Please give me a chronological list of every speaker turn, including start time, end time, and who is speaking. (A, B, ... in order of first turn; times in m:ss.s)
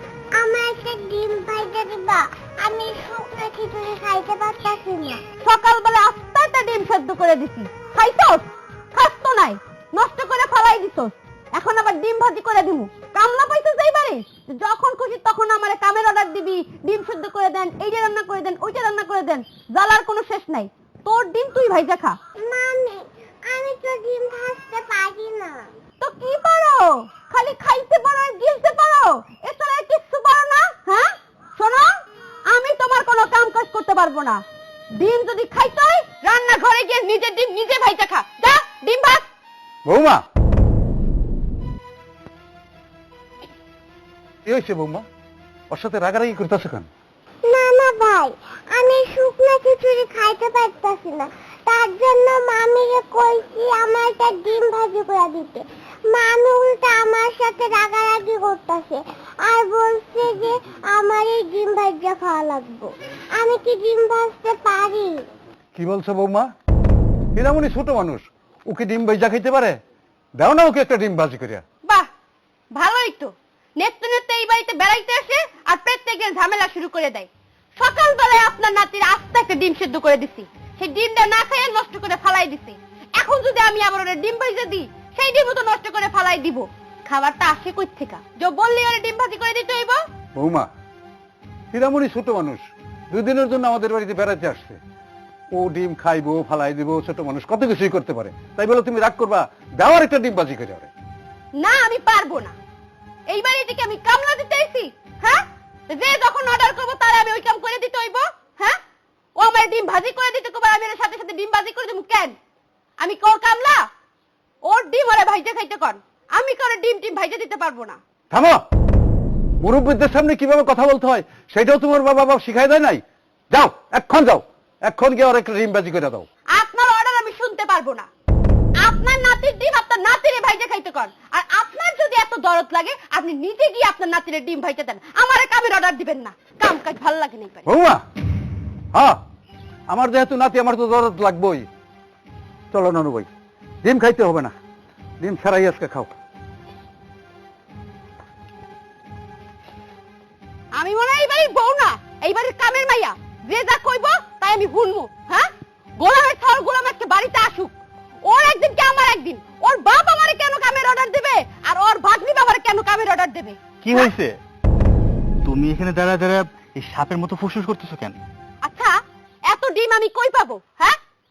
0:00.4-0:05.2 A
0:05.4-0:08.4 B
0:09.0-0:22.2 B
0:22.4-0:25.7 A
0:26.0-0:39.3 B
0:39.9-0:40.2 C
0:44.5-0:45.0 C
0:45.7-0:46.9 C
0:47.5-1:05.3 A
1:05.8-1:06.5 C
1:07.4-1:09.8 C
1:10.4-1:11.6 C
1:12.7-1:17.3 B
1:17.8-1:30.0 B
1:30.4-1:30.7 C
1:31.7-1:34.8 C
1:35.5-1:40.9 C
1:41.6-1:42.5 B
1:43.3-1:48.8 B
1:49.4-1:52.4 B
1:53.0-1:53.8 B
1:54.6-1:58.0 B
1:58.3-1:58.6 C
1:59.6-2:06.3 C
2:06.5-2:08.1 B
2:08.8-2:17.6 B
2:17.7-2:18.0 C
2:18.9-2:19.2 C
2:19.9-2:21.7 C
2:22.7-2:23.3 C
2:23.8-2:24.6 C
2:25.2-2:26.1 C
2:30.7-2:37.7 B
2:38.2-2:44.1 B
2:43.8-2:44.4 D
2:45.4-2:48.2 D
2:48.6-2:48.9 B
2:49.5-2:51.0 B